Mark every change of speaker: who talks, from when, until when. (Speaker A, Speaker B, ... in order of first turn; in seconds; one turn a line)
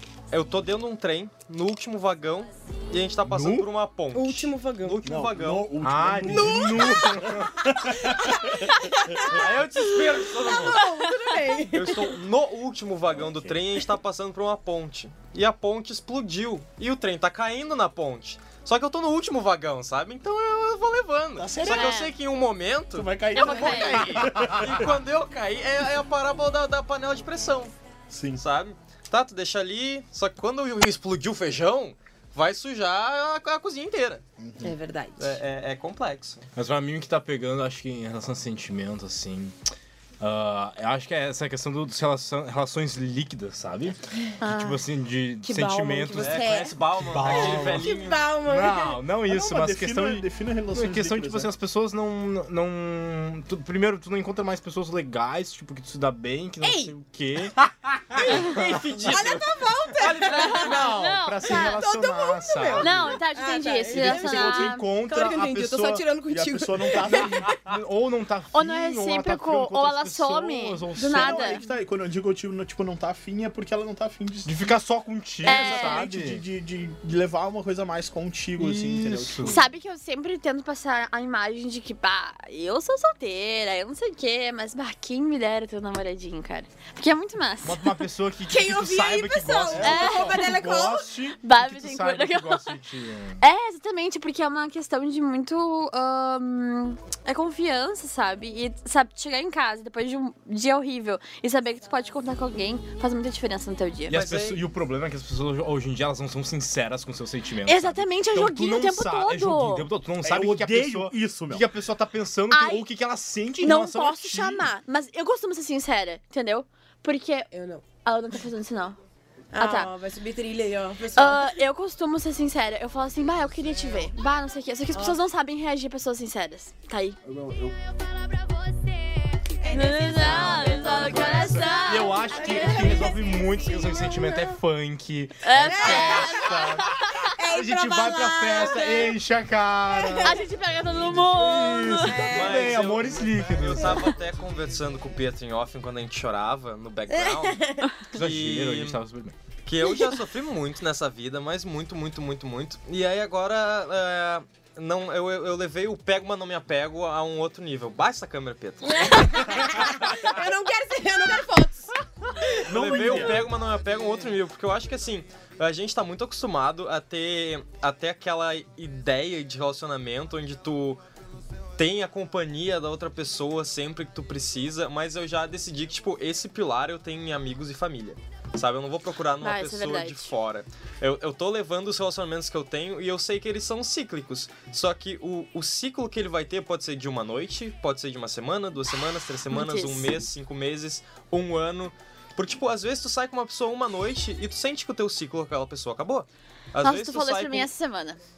Speaker A: 0.3-5.7
Speaker B: 3.2-3.7
Speaker C: 4.1-5.0
Speaker D: 5.0-8.5
Speaker B: 5.8-8.1
Speaker C: 6.3-7.4
Speaker C: 8.0-12.1
Speaker A: 9.2-10.9
Speaker A: 11.7-27.7
Speaker D: 21.4-22.0
Speaker E: 21.6-22.1
Speaker D: 22.9-24.9
Speaker E: 23.3-24.2
Speaker D: 28.1-28.4
Speaker A: 28.4-34.2
Speaker D: 34.4-34.8
Speaker C: 34.6-35.4
Speaker A: 35.2-36.4
Speaker B: 36.5-39.5
Speaker B: 40.2-47.9
Speaker E: 44.4-44.8
Speaker C: 45.4-49.0
Speaker A: 46.2-48.3
Speaker B: 48.4-57.6
Speaker D: 49.3-51.5
Speaker C: 56.6-56.9
Speaker B: 58.1-58.8
Speaker A: 58.1-60.9
Speaker C: 58.2-58.5
Speaker C: 59.0-67.6
Speaker E: 60.3-61.8
Speaker B: 60.4-63.2
Speaker E: 62.8-64.9
Speaker B: 63.9-66.1
Speaker D: 66.2-67.6
Speaker B: 67.6-71.7
Speaker E: 68.5-71.7
Speaker D: 71.0-74.7
Speaker B: 74.4-76.4
Speaker E: 75.4-76.0
Speaker D: 75.4-79.6
Speaker B: 78.6-79.6
Speaker E: 79.4-88.0
Speaker B: 87.6-93.4
Speaker C: 88.5-91.1
Speaker D: 89.7-90.0
Speaker E: 89.8-90.5
Speaker E: 91.4-92.8
Speaker E: 93.4-104.2
Speaker B: 104.1-114.7
Speaker A: 104.1-104.6
Speaker E: 107.7-109.9
Speaker D: 110.2-111.7
Speaker E: 112.5-112.8
Speaker E: 113.6-117.5
Speaker C: 117.5-117.8
Speaker E: 118.0-119.0
Speaker C: 119.5-121.6
Speaker E: 119.6-119.9
Speaker E: 121.1-127.2
Speaker C: 124.9-125.2
Speaker D: 127.2-127.8
Speaker C: 129.6-134.6
Speaker E: 129.7-133.1
Speaker B: 130.1-144.1
Speaker E: 135.4-137.2
Speaker C: 135.6-139.2
Speaker C: 139.9-140.4
Speaker E: 140.2-142.3
Speaker C: 142.1-142.8
Speaker A: 142.3-149.0
Speaker C: 147.1-148.0
Speaker B: 148.1-149.3
Speaker A: 149.6-159.4
Speaker C: 158.8-163.4
Speaker D: 162.7-163.5
Speaker A: 162.7-171.0
Speaker B: 162.9-163.2
Speaker A: 171.8-197.7
Speaker E: 179.4-180.3
Speaker E: 189.5-190.1
Speaker E: 196.8-198.2